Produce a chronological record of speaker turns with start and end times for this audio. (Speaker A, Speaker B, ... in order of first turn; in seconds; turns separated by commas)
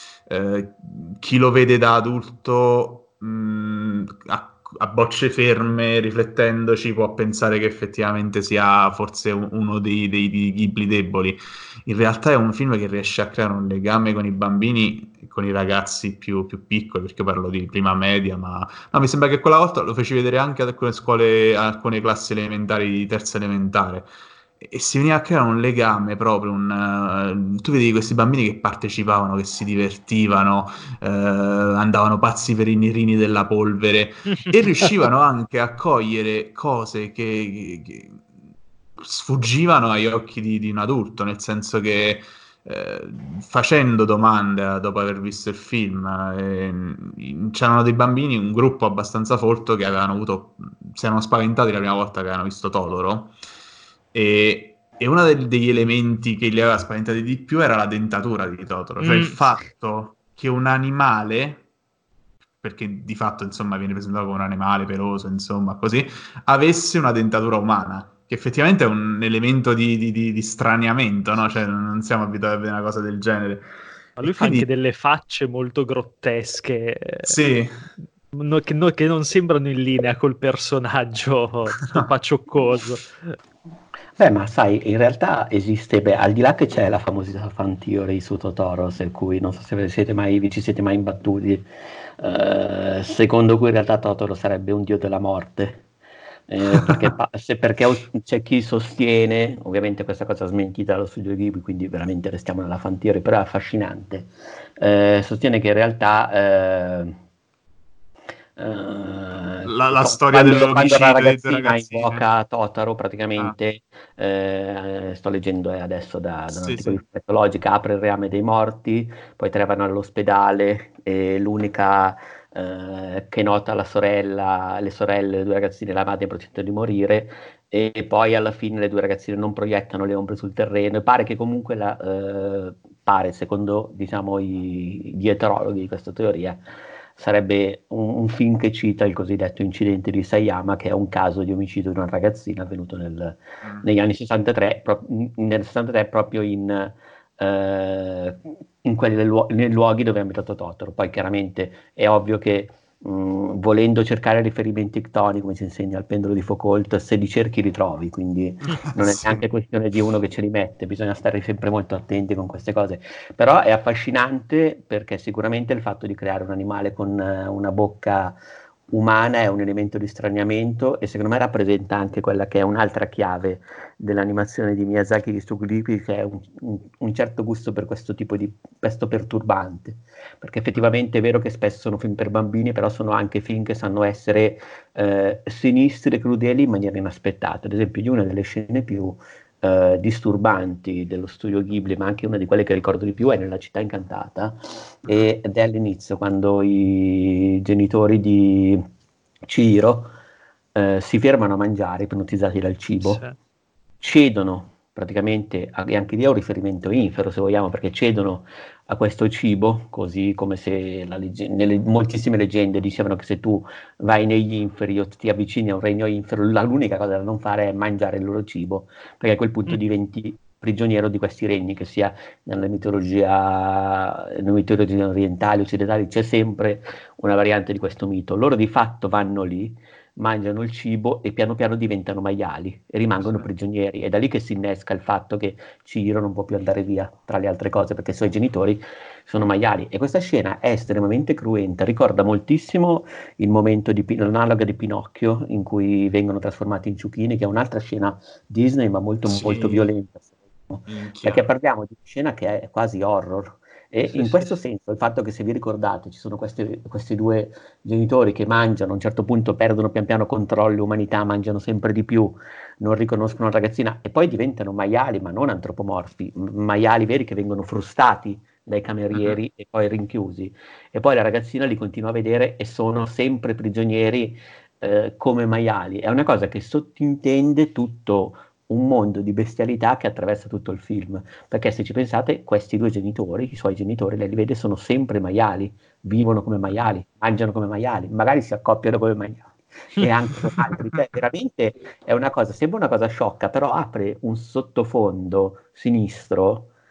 Speaker A: 0.3-38.2, Speaker A: 39.0-53.4, Speaker A: 54.1-61.6, Speaker B: 59.0-59.4, Speaker A: 62.6-74.7, Speaker B: 74.2-77.4, Speaker A: 77.3-77.8, Speaker B: 78.3-83.3, Speaker C: 84.2-95.8, Speaker C: 96.5-107.2, Speaker C: 108.6-136.6, Speaker A: 109.6-112.2, Speaker A: 116.5-117.0, Speaker C: 137.2-168.4, Speaker A: 158.7-159.4, Speaker C: 168.9-198.9, Speaker A: 195.0-195.3, Speaker C: 199.4-200.1, Speaker C: 200.8-203.2, Speaker B: 203.0-203.4, Speaker C: 204.0-296.7, Speaker A: 249.3-249.9, Speaker A: 250.9-251.5, Speaker B: 254.1-254.5